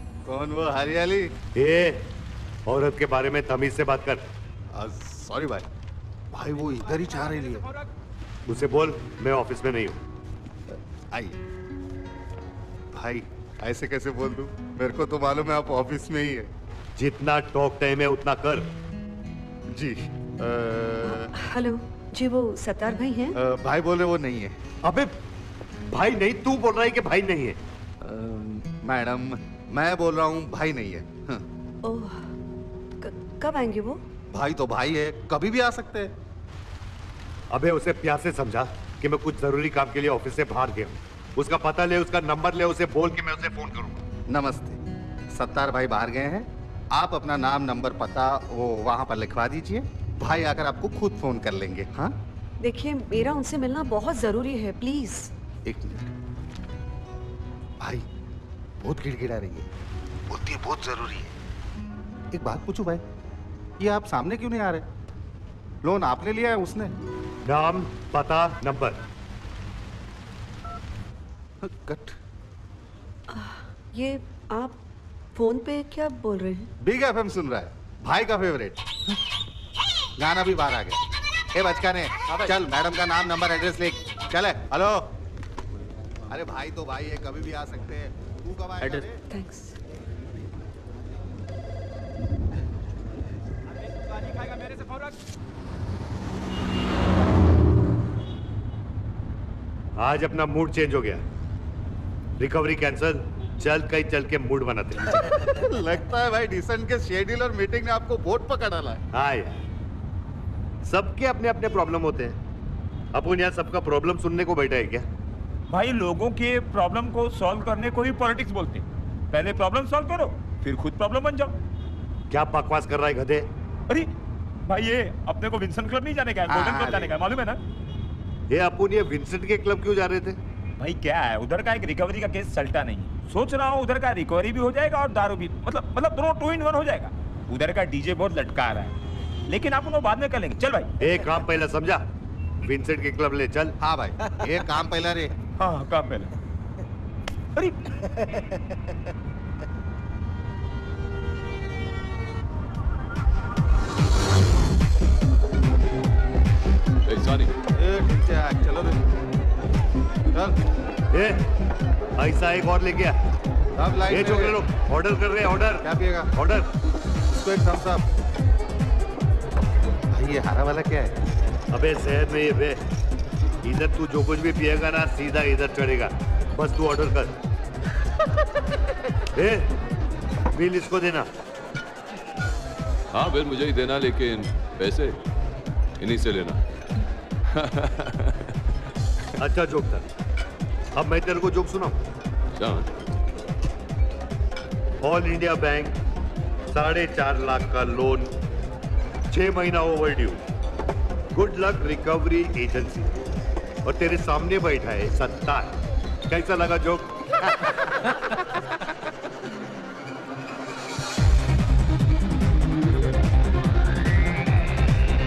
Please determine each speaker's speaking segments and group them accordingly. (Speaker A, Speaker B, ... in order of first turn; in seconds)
Speaker A: 0.3-1.3, 4.7-5.7, 6.3-7.7, 12.9-16.5, 19.7-21.3, 23.4-24.6, 28.0-31.4, 34.3-36.1, 44.3-44.8, 45.3-52.1, 55.6-56.0, 58.8-59.7, 60.3-61.3, 62.3-63.0, 63.8-64.8, 65.8-66.9, 71.6-72.2, 76.8-78.8, 80.2-81.0, 81.5-85.1, 86.3-89.2, 105.5-109.0, 143.8-145.3, 157.8-159.1, 160.3-160.6, 163.8-164.6, 165.8-166.3, 167.3-168.1, 170.1-171.2
Speaker B: 1.6-2.0, 2.7-4.2, 8.5-10.0, 17.0-18.7, 24.8-25.1, 25.9-27.6, 37.5-44.1, 67.5-69.0, 100.0-101.2, 102.4-105.4, 109.1-109.6, 110.8-112.4, 113.1-115.1, 122.3-123.5, 128.5-130.4, 141.0-142.1, 142.6-143.8, 161.1-161.4, 162.2-163.2, 164.1-166.7, 171.7-172.8, 173.6-177.3, 179.3-179.7, 180.5-181.3, 189.4-190.1, 190.9-192.0, 195.0-195.9, 196.7-198.3, 199.3-200.4, 201.3-203.1, 203.8-205.8, 206.3-207.6
Speaker C: 21.0-23.4, 31.8-32.3, 33.0-34.0, 52.6-55.3, 73.3-74.8, 75.3-76.7, 89.3-89.8
Speaker D: 82.3-82.5, 115.7-121.5, 124.7-127.6, 130.8-138.9, 139.5-140.9, 145.6-146.3, 147.6-147.9
Speaker E: 157.1-157.5, 183.1-185.2, 186.0-186.6, 187.5-188.5, 192.6-192.9